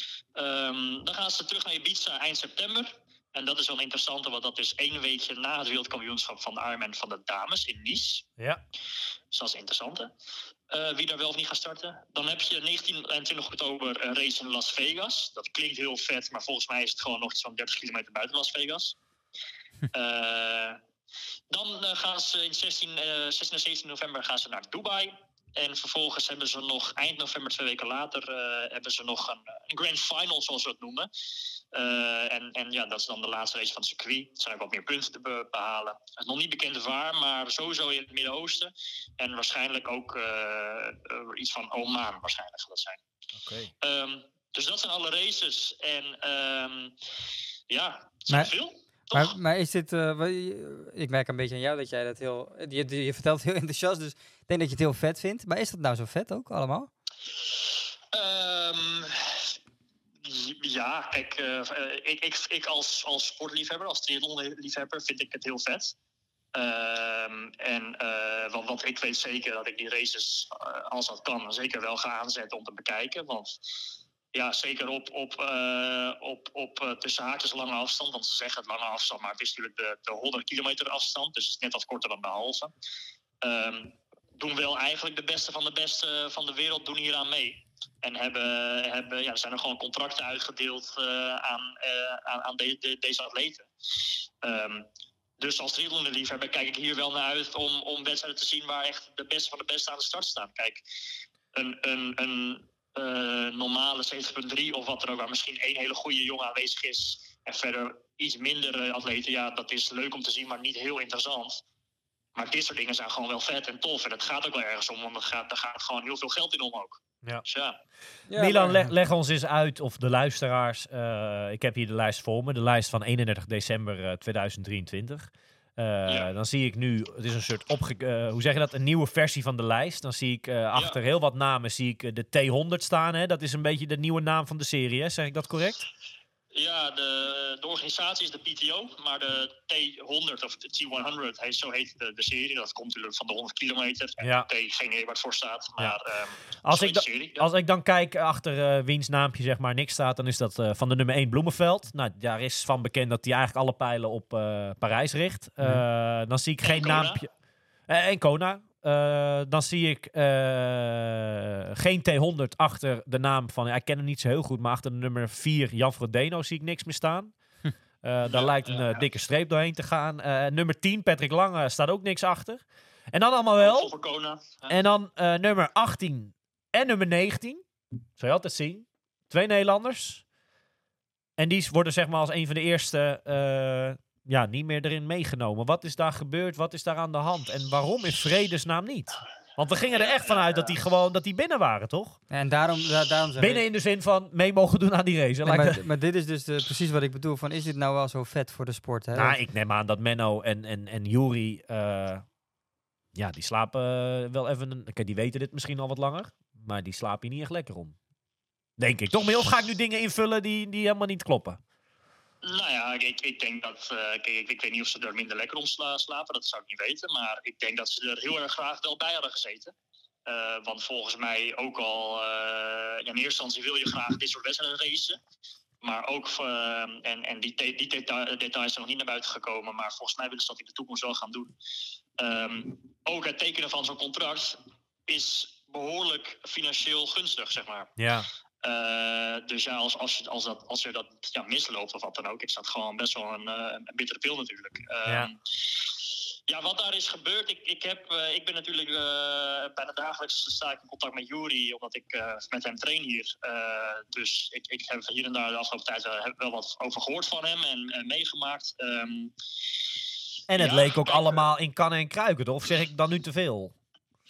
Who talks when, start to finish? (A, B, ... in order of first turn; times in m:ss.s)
0:00.4-0:08.3 A
0:09.3-0:10.1 A
0:10.7-0:19.0 A
0:19.9-0:20.8 A
0:21.5-0:31.1 A
0:31.7-0:43.0 A
0:43.4-0:43.7 B
0:43.8-0:46.9 A
0:47.7-0:49.3 A
0:49.1-0:56.9 C
0:58.1-0:59.5 A
1:00.2-1:06.0 A
1:06.5-1:13.6 A
1:14.3-1:22.7 A
1:23.4-1:33.7 A
1:34.4-1:34.9 A
1:35.4-1:40.8 A
1:41.5-1:51.6 A
1:52.4-1:57.8 A
1:58.3-1:58.9 C
1:58.4-2:15.9 B
2:16.5-2:27.5 A
2:24.2-2:24.5 B
2:26.6-2:37.3 B
2:36.6-2:37.2 A
2:37.9-2:47.3 B
2:48.0-2:53.9 B
2:48.3-2:49.0 A
2:53.6-2:54.8 A
2:54.7-2:57.6 B
2:58.2-3:00.2 B
3:01.4-3:12.2 B
3:10.1-3:10.4 A
3:12.3-3:13.6 C
3:13.4-3:15.8 B
3:15.4-3:19.4 C
3:19.2-3:22.2 B
3:23.2-3:28.0 B
3:28.8-3:31.6 B
3:32.4-3:39.7 A
3:40.3-3:45.2 A
3:45.8-3:51.5 A
3:52.2-3:58.0 A
3:58.0-3:58.3 B
3:58.6-4:19.3 A
4:20.5-4:23.8 B
4:20.6-4:21.5 A